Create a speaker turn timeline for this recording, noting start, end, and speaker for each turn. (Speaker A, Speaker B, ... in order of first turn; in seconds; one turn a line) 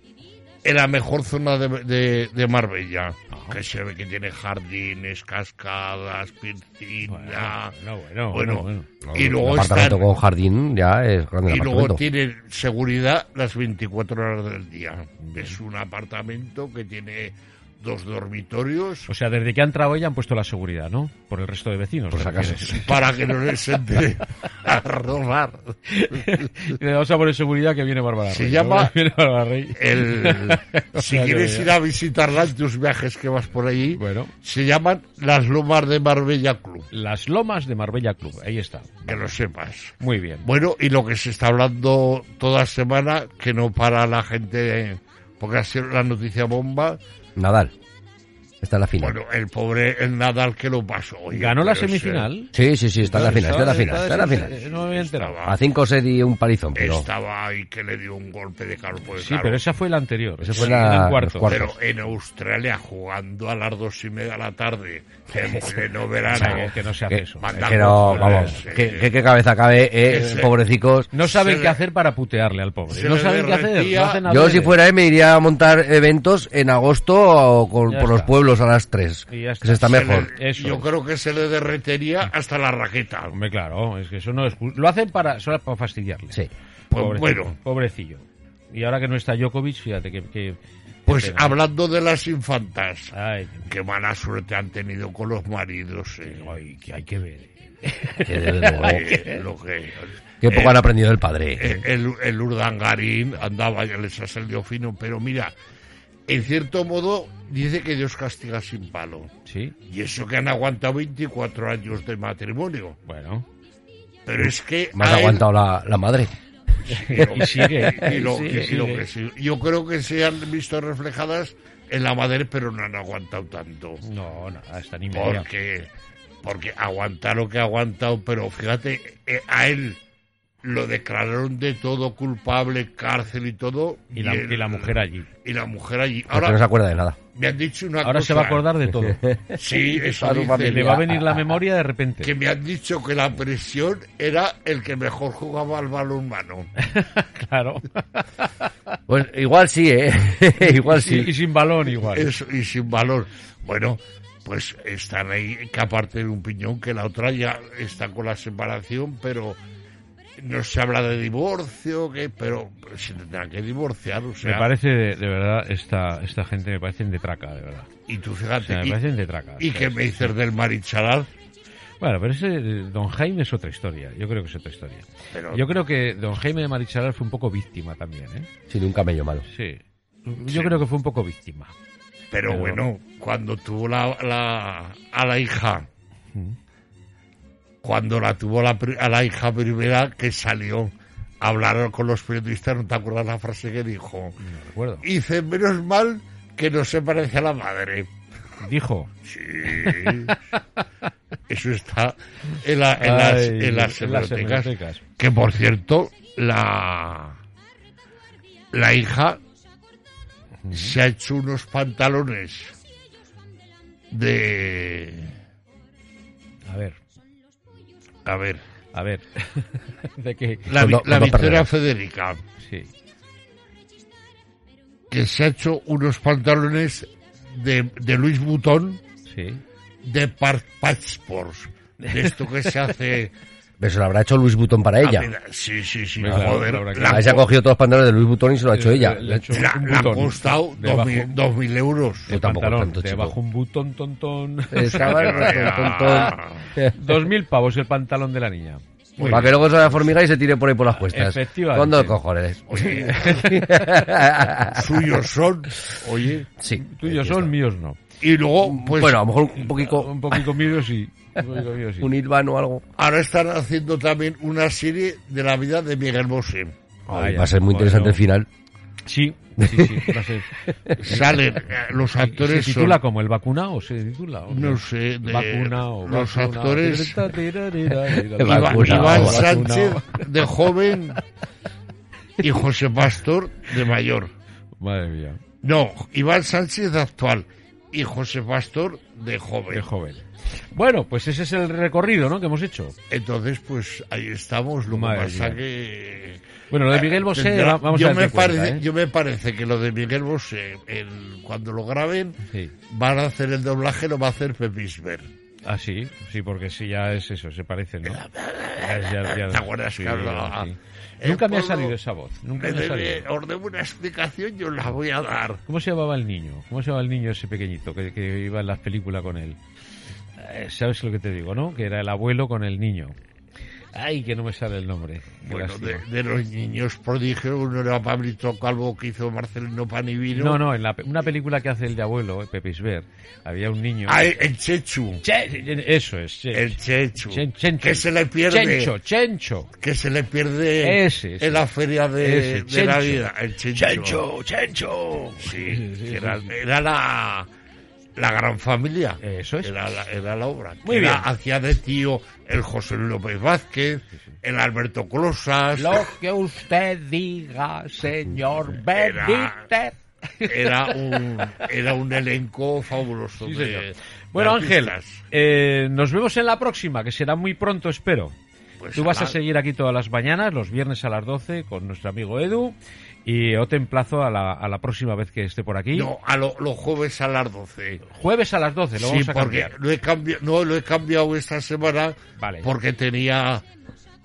Speaker A: 0.6-7.7
Speaker B: 3.3-3.6
Speaker B: 7.0-8.9
Speaker A: 8.3-10.1
Speaker C: 9.0-12.0
Speaker A: 11.5-19.1
Speaker B: 15.2-15.5
Speaker B: 19.1-22.9
Speaker C: 22.1-22.8
Speaker A: 22.7-26.5
Speaker B: 25.9-31.7
Speaker A: 28.3-28.9
Speaker A: 29.8-36.9
Speaker B: 34.0-34.3
Speaker B: 36.9-39.2
Speaker A: 39.0-47.0
Speaker B: 40.0-40.5
Speaker C: 47.4-47.7
Speaker C: 48.6-49.2
Speaker A: 49.0-52.3
Speaker B: 51.3-55.4
Speaker C: 52.5-54.5
Speaker A: 53.3-55.6
Speaker C: 55.4-57.1
Speaker A: 56.7-59.6
Speaker B: 59.1-61.6
Speaker C: 60.4-61.7
Speaker A: 60.6-60.8
Speaker A: 61.4-66.7
Speaker B: 66.3-68.6
Speaker C: 66.4-71.1
Speaker A: 67.4-69.1
Speaker A: 70.0-70.5
Speaker B: 71.1-74.8
Speaker A: 71.2-71.8
Speaker A: 72.9-74.2
Speaker C: 74.2-80.3
Speaker B: 77.9-78.3
Speaker B: 79.3-80.9
Speaker A: 79.8-83.3
Speaker B: 83.3-86.4
Speaker A: 86.9-87.5
Speaker B: 87.0-91.5
Speaker A: 91.0-93.1
Speaker B: 93.1-93.7
Speaker A: 93.7-96.5
Speaker B: 96.2-99.4
Speaker C: 98.2-99.0
Speaker A: 98.8-100.9
Speaker C: 100.4-101.8
Speaker A: 101.6-105.5
Speaker A: 106.3-109.3
Speaker B: 109.5-109.7
Speaker A: 109.8-113.0
Speaker B: 113.1-113.5
Speaker A: 114.2-115.5
Speaker C: 114.9-116.3
Speaker A: 116.8-124.0
Speaker B: 116.9-119.0
Speaker B: 124.0-125.5
Speaker A: 125.1-125.9
Speaker A: 126.4-130.0
Speaker A: 130.6-136.6
Speaker B: 134.1-135.3
Speaker C: 136.3-137.2
Speaker A: 137.3-138.7
Speaker B: 138.0-139.2
Speaker C: 139.0-141.4
Speaker A: 139.6-140.9
Speaker B: 140.6-142.3
Speaker A: 142.2-146.7
Speaker B: 146.8-148.7
Speaker C: 149.1-151.3
Speaker B: 150.6-152.3
Speaker A: 151.9-159.6
Speaker A: 160.4-164.7
Speaker B: 164.4-167.9
Speaker A: 168.1-169.0
Speaker B: 168.6-170.3
Speaker A: 169.6-171.3
Speaker B: 172.0-178.5
Speaker A: 175.3-175.7
Speaker C: 178.7-179.4
Speaker B: 179.5-181.7
Speaker A: 180.5-180.8
Speaker A: 182.3-185.9
Speaker B: 182.5-182.8
Speaker A: 187.8-194.4
Speaker B: 194.4-195.1
Speaker A: 195.0-198.1
Speaker B: 198.6-199.1
Speaker A: 199.2-200.3
Speaker B: 199.7-200.8
Speaker A: 201.5-207.4
Speaker B: 202.9-205.0
Speaker A: 208.7-209.4
Speaker B: 210.6-211.0
Speaker A: 210.7-212.7
Speaker A: 214.1-215.3
Speaker B: 216.7-217.0
Speaker A: 218.2-218.6
Speaker B: 218.9-220.7
Speaker A: 220.7-222.4
Speaker C: 220.7-221.7
Speaker B: 222.6-222.9
Speaker A: 225.1-229.0
Speaker B: 229.3-229.6
Speaker A: 230.0-233.3
Speaker B: 232.0-232.7
Speaker C: 233.8-235.3
Speaker A: 235.0-237.5
Speaker B: 236.2-237.4
Speaker C: 236.3-239.6
Speaker B: 238.7-241.4
Speaker A: 239.5-242.3
Speaker C: 242.3-243.3
Speaker B: 242.3-250.0
Speaker C: 244.7-246.9
Speaker A: 244.9-246.7
Speaker A: 249.2-249.5
Speaker C: 249.2-255.1
Speaker B: 250.9-252.2
Speaker A: 252.7-253.4
Speaker B: 252.8-254.1
Speaker A: 254.6-256.5
Speaker C: 256.6-257.5
Speaker B: 256.8-258.0
Speaker A: 258.2-259.3
Speaker C: 258.6-260.5
Speaker B: 259.5-262.1
Speaker C: 261.4-262.8
Speaker A: 263.0-266.7
Speaker C: 267.1-268.5
Speaker B: 267.1-268.2
Speaker B: 269.0-271.3
Speaker C: 269.6-270.9
Speaker A: 271.0-273.0
Speaker B: 272.2-280.3
Speaker A: 274.5-277.3
Speaker C: 278.1-279.4
Speaker A: 278.4-281.2
Speaker A: 282.4-284.3
Speaker B: 284.8-285.4
Speaker A: 285.6-289.9
Speaker B: 289.7-292.9
Speaker A: 293.1-305.2
Speaker B: 294.9-295.6
Speaker B: 296.7-298.8
Speaker B: 305.6-313.3
Speaker A: 308.0-310.7
Speaker A: 311.2-311.9
Speaker A: 312.6-315.6
Speaker B: 315.7-319.6
Speaker B: 320.4-323.1
Speaker B: 323.9-326.0
Speaker A: 325.4-330.6
Speaker B: 330.3-334.3
Speaker A: 334.1-335.2
Speaker B: 335.2-336.8
Speaker A: 336.5-338.9
Speaker B: 337.3-339.7
Speaker A: 339.8-344.2
Speaker B: 340.8-341.6
Speaker B: 342.2-346.5
Speaker A: 345.4-347.5
Speaker A: 348.2-356.1
Speaker B: 349.2-349.7
Speaker B: 350.8-351.2
Speaker B: 355.8-361.5
Speaker A: 358.9-359.7
Speaker A: 360.5-365.2
Speaker B: 363.4-368.3
Speaker A: 368.8-369.4
Speaker B: 368.9-376.1
Speaker A: 375.9-378.0
Speaker B: 378.1-379.7
Speaker A: 379.0-383.6
Speaker B: 382.4-382.7